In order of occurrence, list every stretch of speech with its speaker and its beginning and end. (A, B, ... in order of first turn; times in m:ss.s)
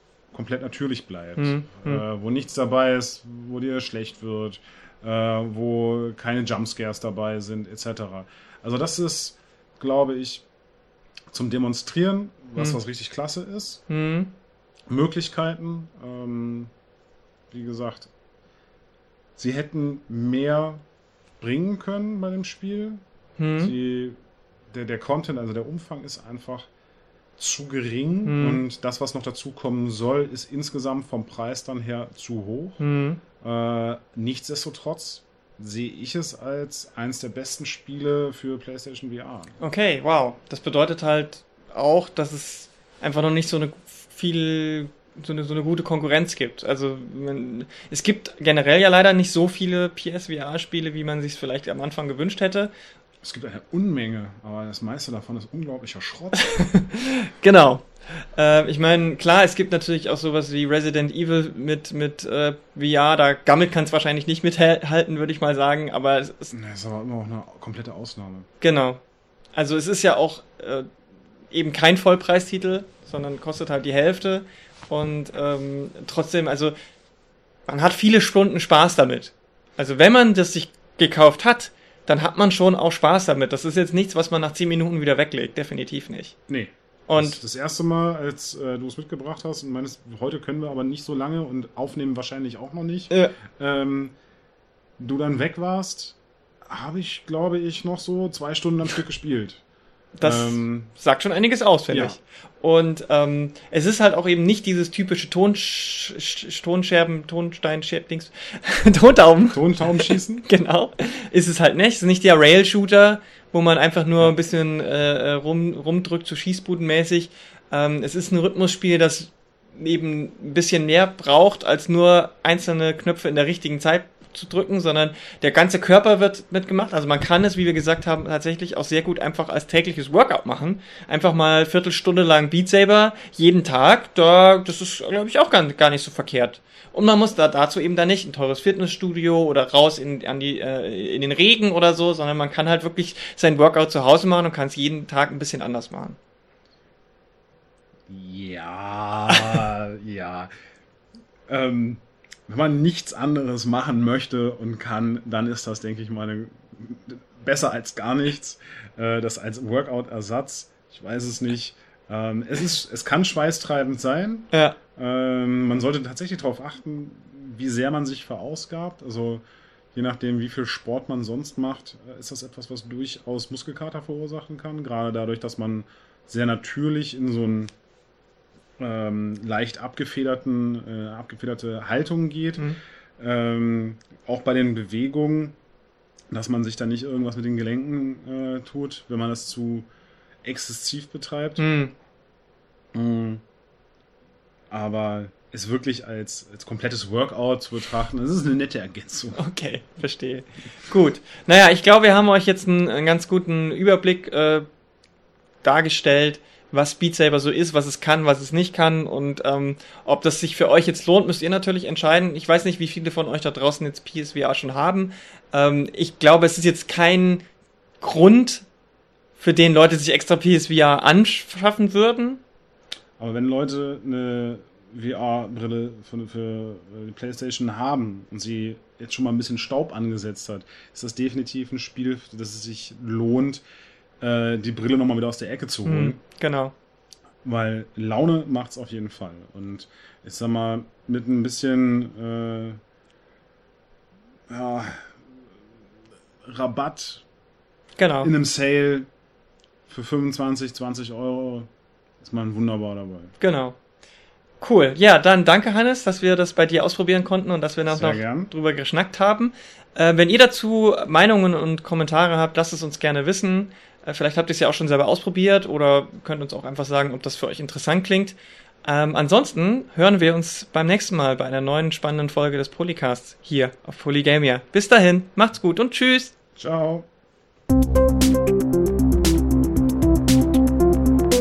0:00.3-0:10.4 A
0:01.4-0:02.0 B
0:11.3-0:13.8 A
0:13.9-0:14.3 B
0:14.9-0:16.7 A
0:17.5-0:18.1 A
0:19.4-0:20.8 A
0:21.4-0:23.0 A
0:23.4-0:23.7 B
0:23.6-0:24.2 A
0:24.7-0:26.7 A
0:27.4-0:32.8 A
0:28.2-0:28.6 B
0:32.8-0:33.2 B
0:33.4-0:39.5 A
0:39.6-0:52.7 B
0:53.2-0:56.5 A
0:56.4-1:06.5 B
1:06.5-1:08.5 A
1:08.6-1:09.0 B
1:09.5-1:10.9 B
1:11.5-1:16.7 B
1:17.7-1:26.3 B
1:26.5-1:34.2 A
1:27.1-1:27.4 B
1:33.1-1:33.4 B
1:35.0-1:39.6 A
1:40.2-2:26.2 B
1:40.2-1:40.9 A
1:41.9-1:42.2 A
1:49.5-1:50.4 A
2:28.1-2:30.5 A
2:29.3-2:29.6 B
2:31.5-2:57.7 A
2:44.5-2:44.8 B
2:58.8-3:05.6 A
3:06.3-3:09.9 A
3:10.4-3:11.7 A
3:11.6-3:11.9 B
3:12.9-3:13.4 A
3:14.7-3:19.4 A
3:19.3-3:24.6 B
3:25.6-3:37.4 B
3:38.0-3:38.6 B
3:39.4-3:42.4 B
3:43.2-3:53.6 A
3:54.2-3:56.2 A
3:55.8-3:56.7 B
3:57.4-4:02.8 A
4:04.5-4:05.2 A
4:06.4-4:07.2 A
4:08.0-4:08.3 B
4:08.2-4:09.1 A
4:09.9-4:11.7 A
4:12.2-4:13.3 A
4:13.4-4:13.8 B
4:14.6-4:36.3 B
4:17.9-4:18.5 A
4:36.6-4:37.1 A